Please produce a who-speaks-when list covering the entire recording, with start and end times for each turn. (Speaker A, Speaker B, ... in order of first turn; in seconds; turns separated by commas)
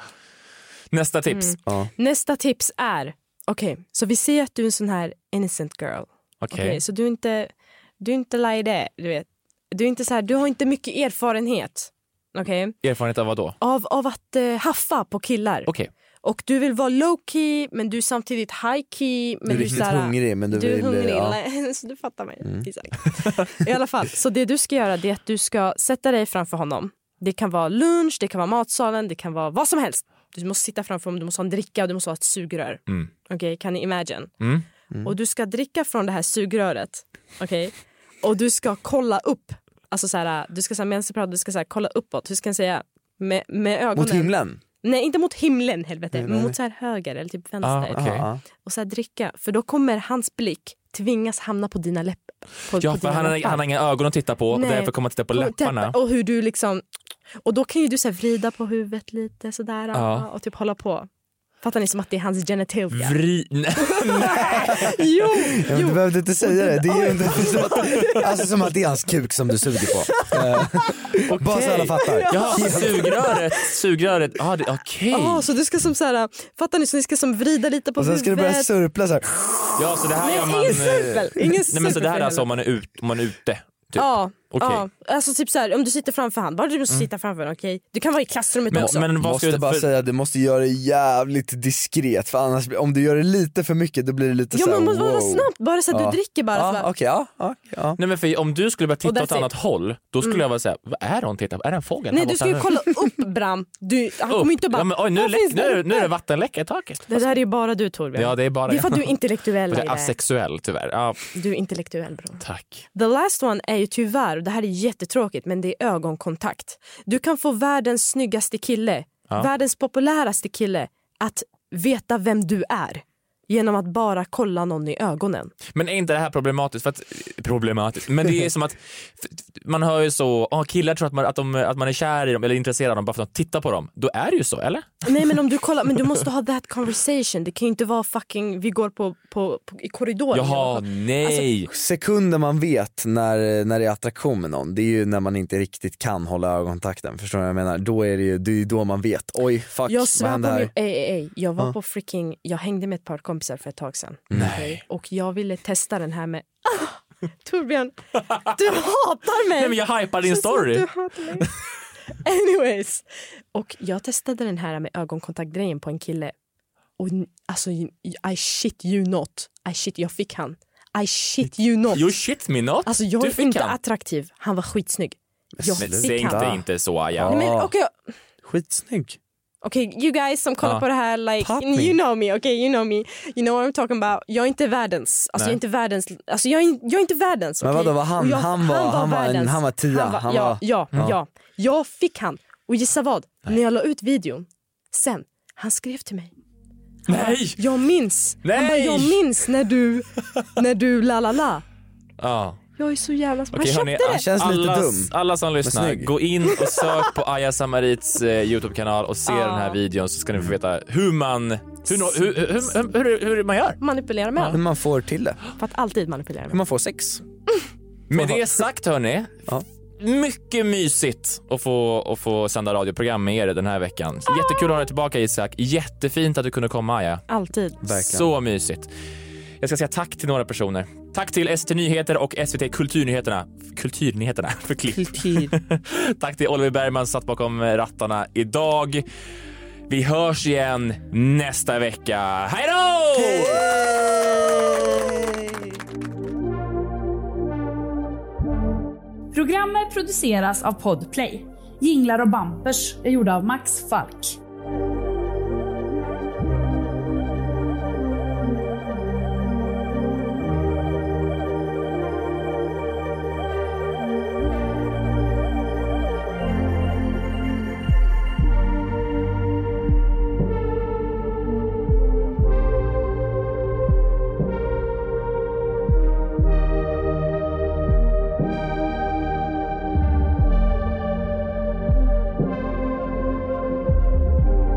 Speaker A: 0.9-1.6, Speaker B: 1.3-12.8, Speaker A: 6.4-6.8, Speaker A: 12.8-13.6, Speaker B: 13.6-15.7, Speaker B: 16.2-34.3, Speaker C: 19.5-21.4, Speaker B: 35.0-48.0, Speaker C: 43.9-44.6, Speaker C: 46.1-46.5, Speaker A: 47.6-48.3, Speaker C: 47.9-48.4, Speaker B: 48.6-53.7, Speaker A: 52.8-56.0, Speaker B: 54.5-56.8, Speaker B: 57.4-61.1, Speaker A: 59.9-60.3, Speaker B: 61.6-63.2, Speaker A: 62.9-65.0, Speaker B: 63.8-68.3, Speaker C: 65.5-73.1, Speaker B: 70.1-71.1, Speaker A: 71.2-75.5, Speaker B: 72.0-73.6, Speaker B: 75.1-78.7, Speaker C: 78.0-79.7, Speaker A: 79.7-84.8, Speaker B: 80.2-82.5, Speaker B: 84.0-89.1, Speaker A: 88.7-89.9, Speaker C: 88.7-98.0, Speaker B: 94.5-96.9, Speaker A: 98.0-102.7, Speaker B: 99.0-99.5, Speaker B: 102.1-106.1, Speaker A: 104.3-107.3, Speaker B: 107.1-110.1, Speaker A: 108.1-109.1, Speaker A: 109.7-111.3, Speaker B: 111.3-112.4, Speaker A: 112.4-112.8, Speaker B: 112.9-125.5, Speaker A: 125.7-135.1, Speaker B: 135.0-141.5, Speaker A: 140.3-141.7, Speaker C: 141.7-150.7, Speaker B: 149.9-161.5, Speaker C: 154.3-154.6, Speaker A: 154.3-154.8, Speaker A: 159.6-160.9, Speaker B: 162.2-166.3, Speaker B: 167.0-172.1, Speaker A: 171.9-173.8, Speaker B: 172.8-176.5, Speaker C: 175.6-177.7, Speaker A: 175.8-177.3, Speaker B: 177.3-177.9, Speaker C: 178.4-179.2, Speaker B: 179.6-196.3, Speaker C: 181.4-181.9, Speaker C: 187.6-191.1, Speaker A: 197.1-197.6, Speaker B: 197.1-201.6, Speaker A: 198.4-199.4, Speaker A: 202.2-202.6, Speaker B: 202.8-204.2, Speaker A: 203.5-213.8, Speaker C: 204.1-206.1, Speaker B: 209.3-209.8, Speaker B: 213.8-214.6, Speaker C: 214.5-215.4, Speaker B: 215.6-216.6, Speaker C: 216.5-217.2, Speaker A: 218.1-227.2, Speaker C: 218.1-218.5, Speaker B: 227.3-227.8, Speaker C: 227.8-228.3, Speaker A: 227.9-228.9, Speaker A: 229.6-239.0, Speaker A: 239.9-243.7, Speaker C: 243.2-245.7, Speaker D: 249.3-254.4